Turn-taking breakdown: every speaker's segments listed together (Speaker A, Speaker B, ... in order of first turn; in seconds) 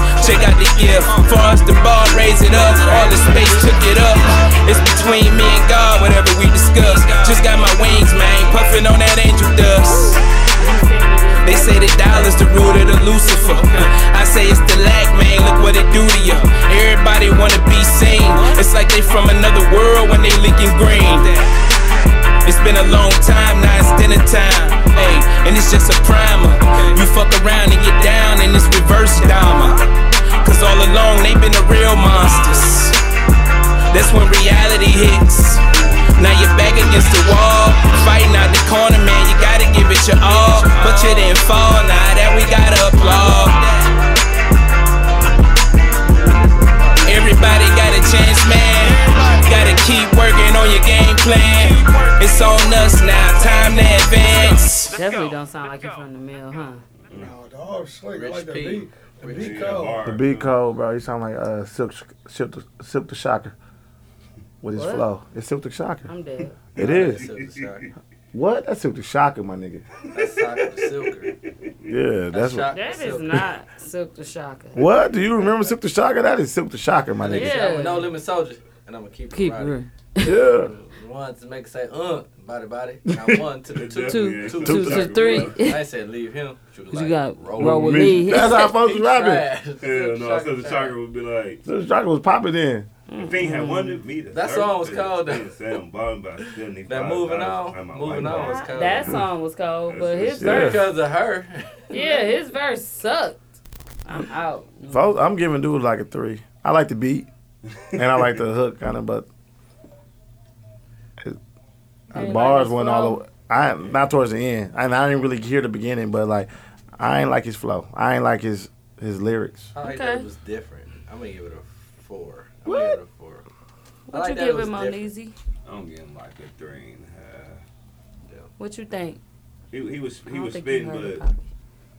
Speaker A: 0.2-10.3, 11.4-21.6, 22.4-29.9, 30.4-33.0, 33.9-44.0, 47.0-55.2
Speaker B: 2.5-3.8, 10.5-13.5, 54.9-56.8, 64.7-65.1, 66.1-66.6, 72.7-74.8, 77.3-78.2, 79.3-80.3, 84.1-85.8, 86.9-88.7, 93.1-94.0, 98.2-100.8, 101.9-103.4, 104.0-105.1, 112.1-113.2, 119.8-120.3, 124.1-125.3, 128.6-129.2, 130.3-131.4
Speaker C: 46.1-47.3, 58.1-59.9, 66.8-67.9, 70.1-71.4, 72.3-73.4, 77.2-79.8, 80.3-91.0, 94.3-95.5, 96.9-99.2, 100.4-102.3, 119.7-123.4, 124.1-125.1
Speaker D: 57.1-57.4, 59.3-60.6, 66.8-67.9, 70.0-71.9, 83.7-85.6, 89.8-91.6, 93.2-99.2, 99.9-100.8, 125.7-127.6, 129.7-131.2
Speaker E: 57.1-60.1
Speaker F: 60.1-63.5, 64.6-66.1, 66.8-67.2, 68.3-69.8, 71.9-72.7, 74.7-77.6, 80.2-80.7, 83.1-83.4, 84.7-85.1, 87.6-89.5, 91.7-92.9, 100.4-100.8, 104.9-107.3, 107.9-109.3, 112.1-119.7, 122.7-123.0